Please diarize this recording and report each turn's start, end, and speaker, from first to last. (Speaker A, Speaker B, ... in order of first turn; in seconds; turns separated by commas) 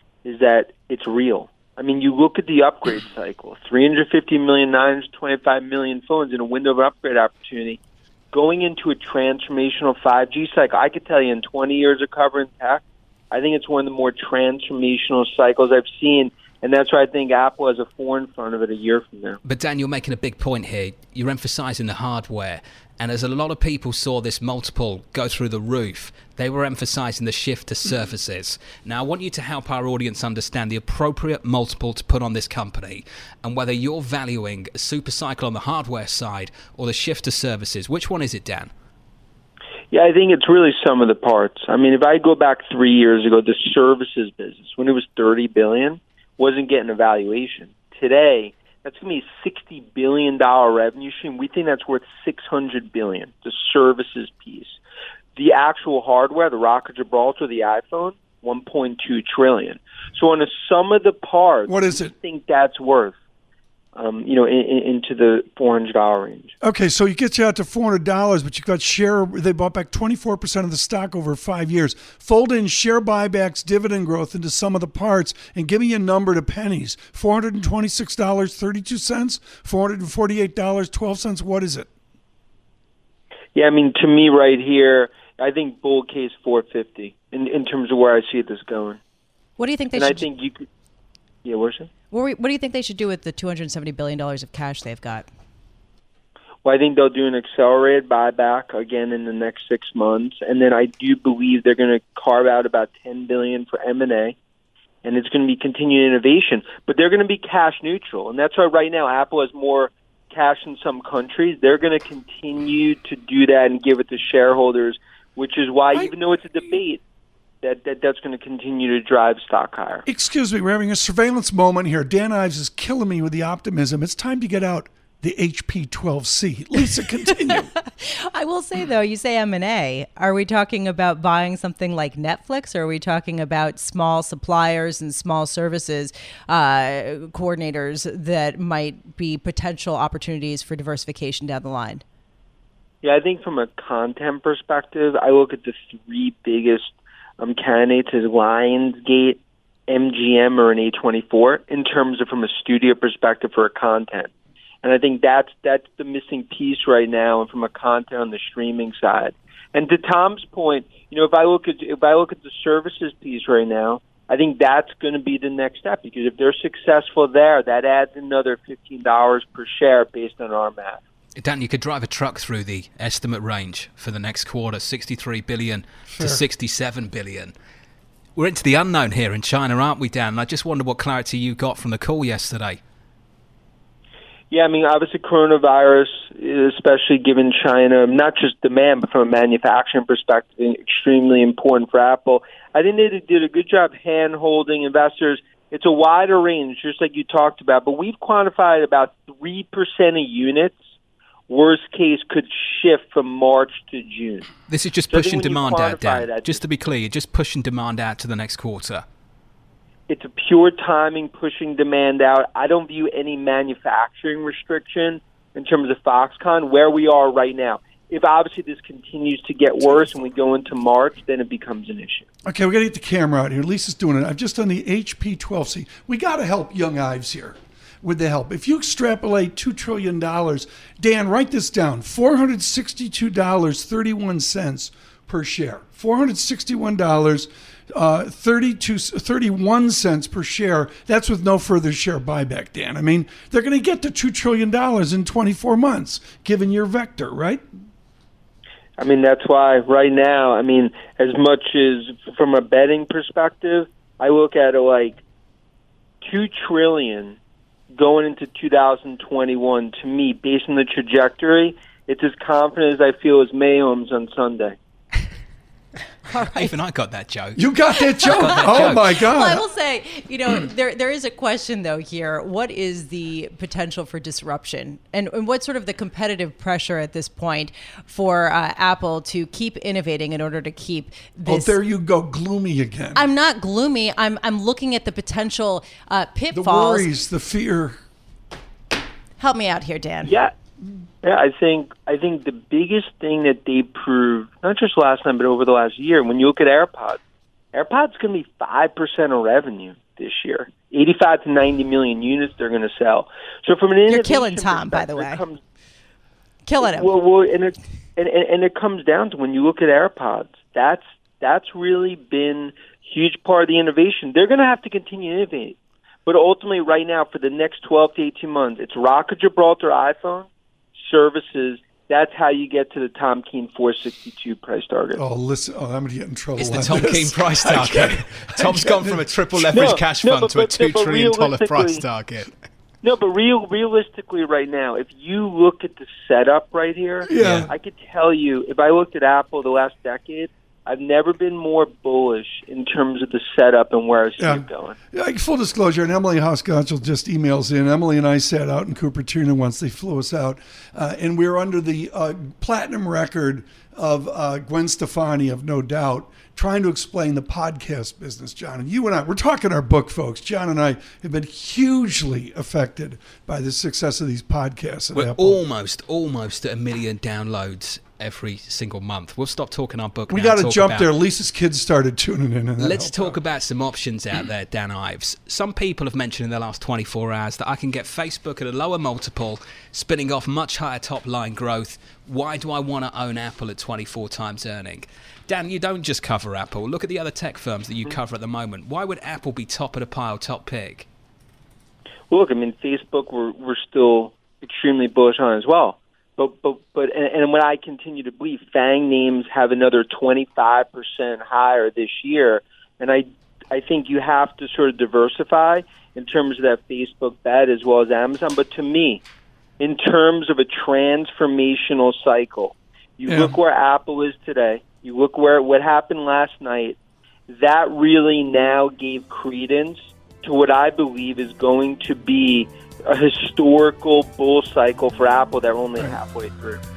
Speaker A: 0.2-7.8, Speaker A: 8.3-19.4, Speaker B: 19.4-38.7, Speaker A: 39.9-54.8, Speaker A: 55.4-63.2, Speaker C: 61.7-62.1, Speaker A: 64.0-66.5, Speaker C: 66.6-81.9, Speaker A: 83.5-89.0, Speaker D: 89.6-90.3, Speaker A: 90.0-90.7, Speaker A: 91.4-91.9, Speaker D: 92.1-95.3, Speaker A: 96.6-104.4, Speaker A: 105.0-117.0, Speaker A: 117.6-120.1, Speaker C: 120.1-127.7, Speaker D: 128.0-142.0, Speaker A: 143.0-154.3, Speaker A: 154.8-171.0, Speaker B: 171.4-177.5, Speaker C: 176.1-176.4, Speaker B: 178.3-182.8, Speaker A: 184.5-200.8, Speaker A: 201.5-204.5, Speaker B: 204.7-209.0, Speaker A: 205.1-206.6, Speaker A: 210.1-222.3, Speaker C: 222.4-247.6, Speaker A: 249.0-255.2, Speaker A: 256.2-257.4, Speaker A: 258.0-264.8, Speaker D: 266.3-266.7, Speaker B: 266.6-267.7, Speaker C: 267.6-269.6, Speaker B: 268.2-269.1, Speaker D: 268.3-281.8, Speaker C: 281.5-283.2, Speaker D: 283.1-287.1, Speaker C: 286.5-288.0, Speaker D: 289.4-290.4, Speaker A: 290.2-290.5, Speaker A: 291.2-297.2, Speaker A: 297.7-305.6, Speaker D: 304.1-305.4, Speaker D: 306.7-307.1, Speaker A: 306.8-325.2, Speaker C: 325.2-329.2, Speaker B: 326.6-332.6, Speaker A: 329.7-332.0, Speaker A: 333.0-345.0, Speaker C: 337.3-337.7, Speaker B: 337.4-337.7, Speaker C: 344.4-365.6, Speaker B: 365.1-371.1, Speaker C: 370.3-373.4, Speaker B: 372.8-391.1, Speaker A: 392.3-409.2, Speaker A: 409.8-417.0, Speaker C: 413.3-413.6, Speaker A: 417.5-426.8